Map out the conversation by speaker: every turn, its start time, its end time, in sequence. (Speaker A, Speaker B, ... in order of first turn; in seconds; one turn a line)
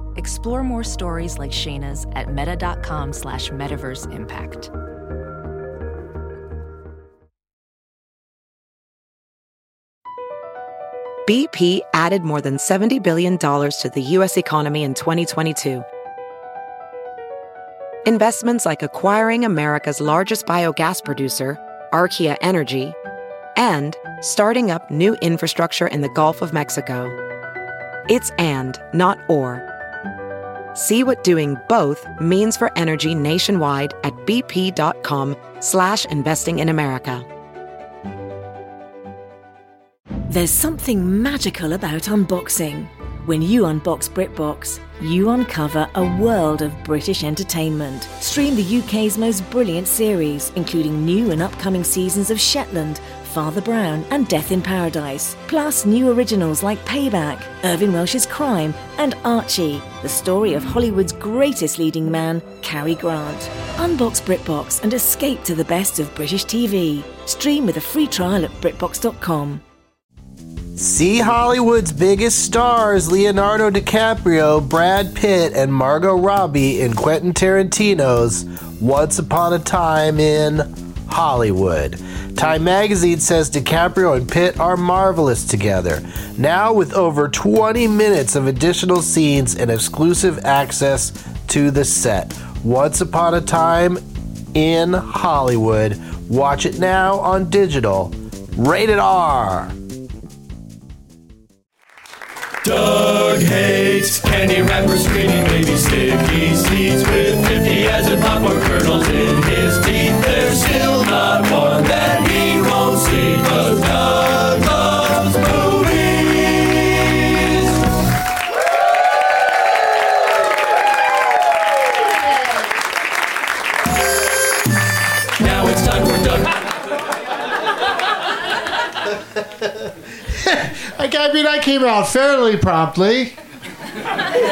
Speaker A: 0.1-4.7
Speaker B: 11.2-15.8
Speaker B: 18.0-22.9
Speaker B: 23.6-27.1
Speaker B: 28.1-29.6
Speaker B: 30.7-37.2
Speaker C: 40.3-69.6
Speaker D: 70.8-94.0
Speaker D: 94.5-99.7
Speaker E: 102.6-117.6
Speaker E: 125.4-126.5
Speaker F: 130.3-133.3